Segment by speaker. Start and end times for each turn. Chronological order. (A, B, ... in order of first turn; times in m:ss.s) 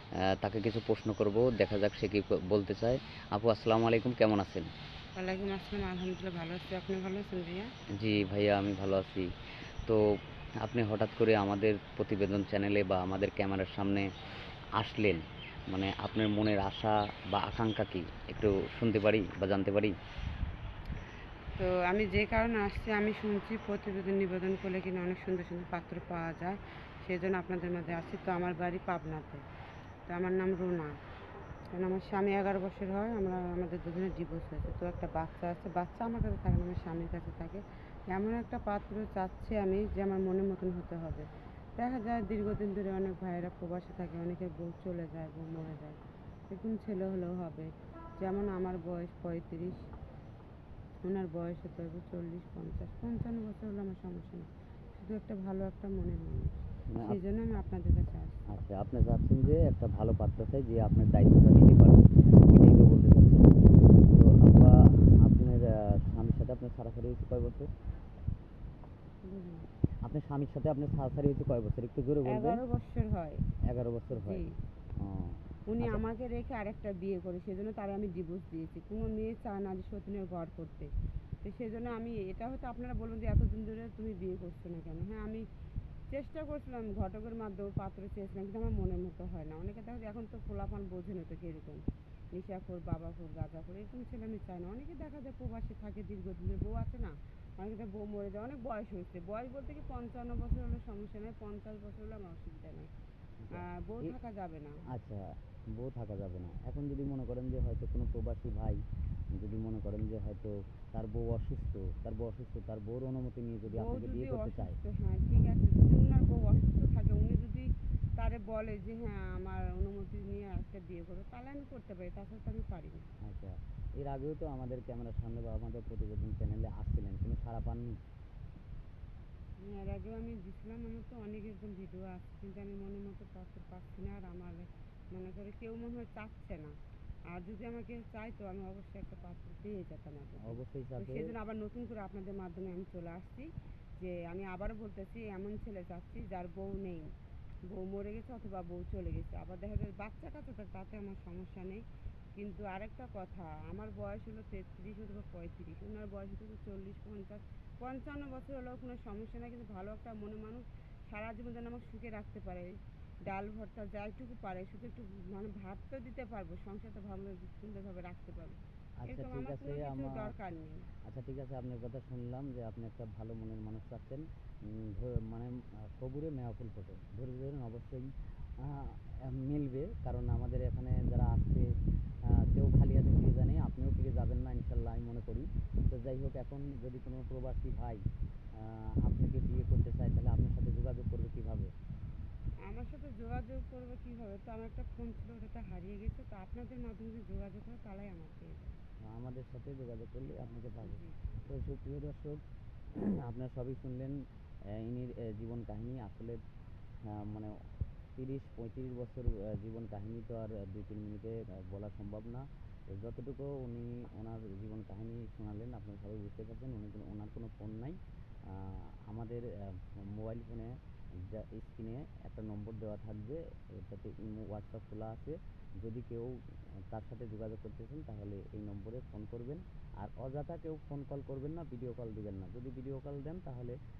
0:00.2-0:04.7 A
0:05.2-0:07.7 B
0:07.9-0:09.3 A
0:10.6-0:14.1 A
0:14.8-0:20.0 A
0:21.6-0:29.4 B
0:30.1-0:31.0 B
0:31.7-0:49.8 B
0:51.0-0:58.4 B
0:56.9-0:57.2 A
0:58.5-1:07.7 A
1:09.2-1:09.7 B
1:10.0-1:12.6 A
1:12.2-1:13.4 B
1:13.6-1:14.4 A
1:14.1-1:14.5 B
1:15.0-1:16.0 A
1:15.7-1:20.9 B
1:21.4-1:25.4 B
1:26.1-1:42.9 B
1:43.5-1:44.1 A
1:43.5-1:44.8 B
1:44.9-1:48.8 A
1:49.3-1:54.8 A
1:53.7-2:03.1 B
2:03.2-2:08.0 A
2:09.6-2:16.8 B
2:17.3-2:27.1 B
2:20.4-2:21.3 A
2:27.7-2:50.9 B
2:49.0-2:50.3 A
2:51.0-3:08.0 A
3:08.5-3:11.7 A
3:12.6-3:18.8 B
3:19.0-3:22.4 A
3:20.8-3:21.2 B
3:22.9-3:26.4 A
3:27.0-3:27.5 A
3:28.2-3:46.3 A
3:46.9-3:53.8 A